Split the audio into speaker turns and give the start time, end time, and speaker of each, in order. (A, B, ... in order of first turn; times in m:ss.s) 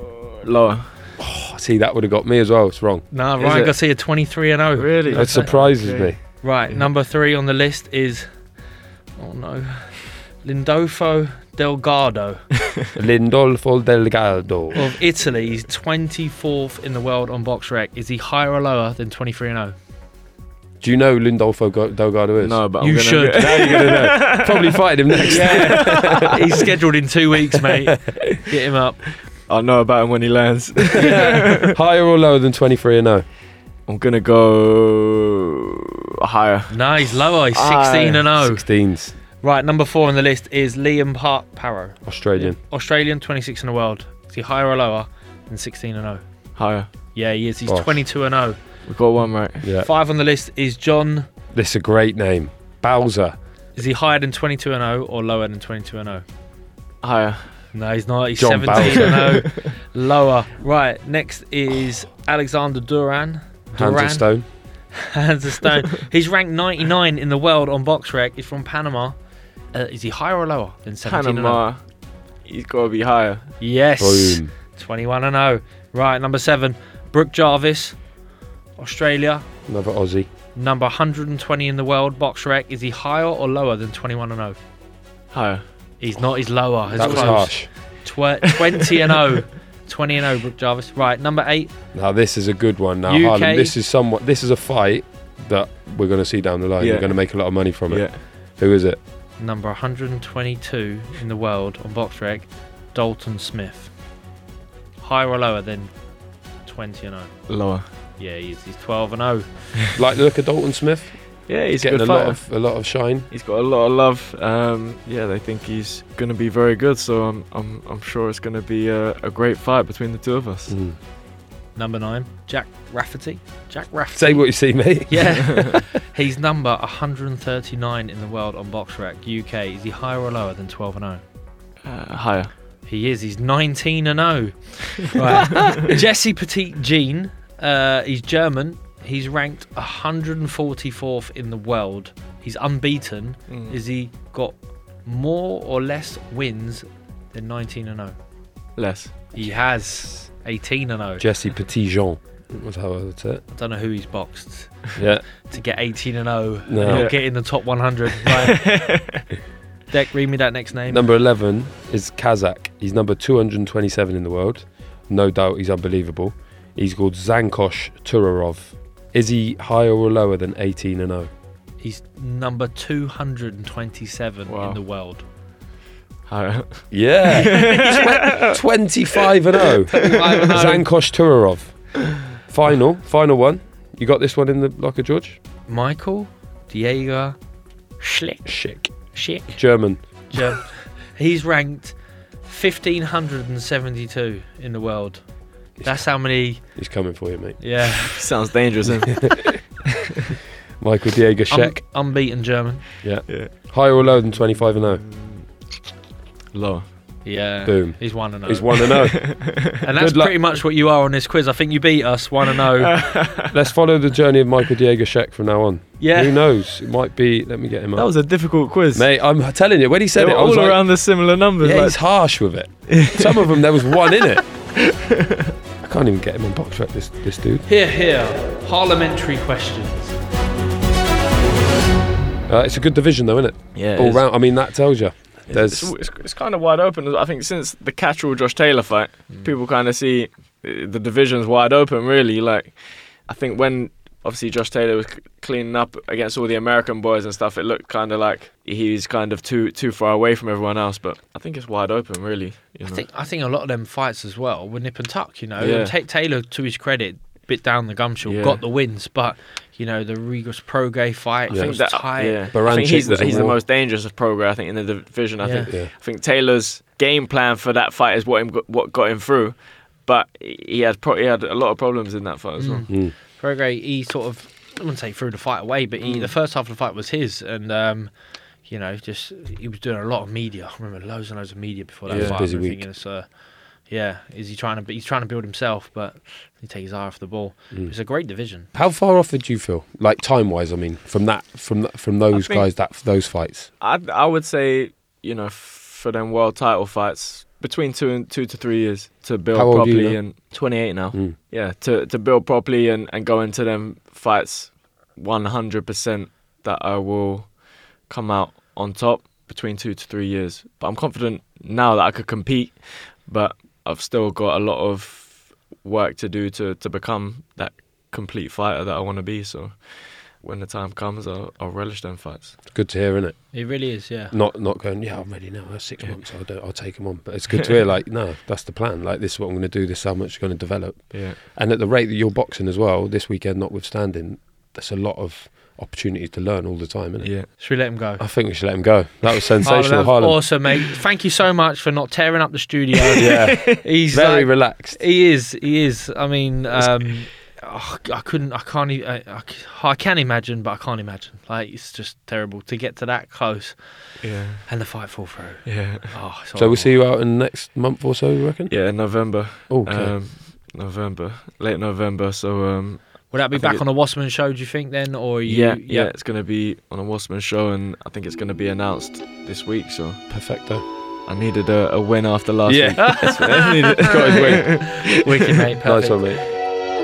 0:00.4-0:00.9 A
0:01.2-0:03.1 B
0:03.1-0:05.7 C
0:03.4-0:04.2 A
0:04.8-0:06.8 A
0:05.1-0:06.2 B
0:06.3-0:08.6 C
0:09.2-0:12.6 C
0:13.0-0:15.0 B
0:14.7-0:19.8 C
0:20.8-0:26.4 B
0:22.4-0:26.2 A
0:22.8-0:23.8 C
0:25.3-0:29.2 C
0:29.3-0:31.7 A
0:31.0-0:33.3 B
0:33.9-0:38.3 A
0:36.7-0:49.0 C
0:38.4-0:39.2 B
0:42.0-0:42.6 B
0:46.6-0:46.9 A
0:47.7-0:48.1 B
0:48.9-0:49.7 A
0:49.6-0:49.9 B
0:49.8-0:51.3 C
0:51.5-0:53.4 B
0:53.8-0:56.2 C
0:57.0-0:57.7 A
0:57.7-1:09.2 C
0:58.4-0:59.4 B
1:03.8-1:04.5 B
1:09.7-1:11.6 C
1:11.0-1:13.5 A
1:13.6-1:18.2 C
1:14.0-1:14.5 B
1:18.8-1:19.5 C
1:19.7-1:20.3 B
1:20.6-1:24.6 C
1:25.3-1:25.7 A
1:26.0-1:31.7 C
1:26.8-1:28.1 B
1:26.9-1:28.0 A
1:31.9-1:39.0 B
1:33.1-1:33.8 C
1:36.8-1:38.2 A
1:39.4-1:44.0 C
1:45.0-1:49.9 C
1:47.5-1:47.9 A
1:49.9-1:53.3 B
1:51.5-2:00.8 A
2:00.7-2:01.0 B
2:01.8-2:11.2 C
2:04.1-2:05.8 B
2:11.8-2:12.5 A
2:12.9-2:28.2 C
2:23.5-2:23.8 A
2:28.8-2:29.3 A
2:29.3-2:31.2 C
2:31.2-2:33.4 B
2:33.5-2:38.8 C
2:35.0-2:35.3 B
2:36.7-2:37.2 B
2:36.9-2:39.2 A
2:39.9-2:41.1 C
2:40.9-2:51.3 B
2:51.8-2:55.2 C
2:54.5-2:54.8 A
2:56.3-2:58.6 A
2:56.9-3:05.4 B
2:59.2-3:00.2 A
3:00.0-3:00.9 C
3:05.7-3:17.0 C
3:08.4-3:10.5 B
3:15.8-3:18.2 B
3:17.6-3:18.2 C
3:18.2-3:19.8 A
3:18.9-3:19.5 B
3:20.8-3:21.8 B
3:21.5-3:22.8 C
3:23.0-3:25.0 B
3:23.3-3:25.5 A
3:26.5-3:26.9 A
3:27.2-3:29.2 C
3:27.6-3:30.4 B
3:28.9-3:29.4 A
3:29.8-3:33.0 C
3:32.8-3:33.5 A
3:33.4-3:45.0 B
3:36.0-3:36.4 C
3:38.0-3:39.2 A
3:40.2-3:44.6 A
3:45.8-3:47.7 B
3:47.7-3:50.2 C
3:52.5-3:56.0 B
3:53.7-4:13.1 A
3:59.3-3:59.6 C
4:12.8-4:22.5 C
4:15.6-4:16.0 A
4:18.2-4:18.6 A
4:21.5-4:23.6 B
4:21.5-4:32.9 A
4:25.4-4:25.7 C
4:32.6-4:48.7 C
4:36.0-4:36.3 A
4:42.1-4:42.9 B
4:42.1-4:42.4 A
4:47.7-4:53.7 B
4:52.3-4:52.7 A
4:53.8-5:22.6 A
4:59.5-5:01.4 B
5:22.7-5:40.7 B
5:23.5-5:24.4 C
5:31.1-5:31.4 A
5:37.2-5:37.5 A
5:37.6-5:38.8 C
5:39.6-5:56.9 C
5:43.1-5:43.5 A
5:43.2-5:45.0 B
5:54.2-5:54.9 A
5:55.6-5:56.2 A
5:56.6-6:00.2 B
5:58.7-6:03.8 A
6:03.3-6:06.1 C
6:05.5-6:10.2 A
6:10.3-6:10.8 B
6:11.3-6:15.0 A
6:12.7-6:15.0 B
6:13.0-6:13.6 C
6:15.0-6:16.4 C
6:15.8-6:16.5 B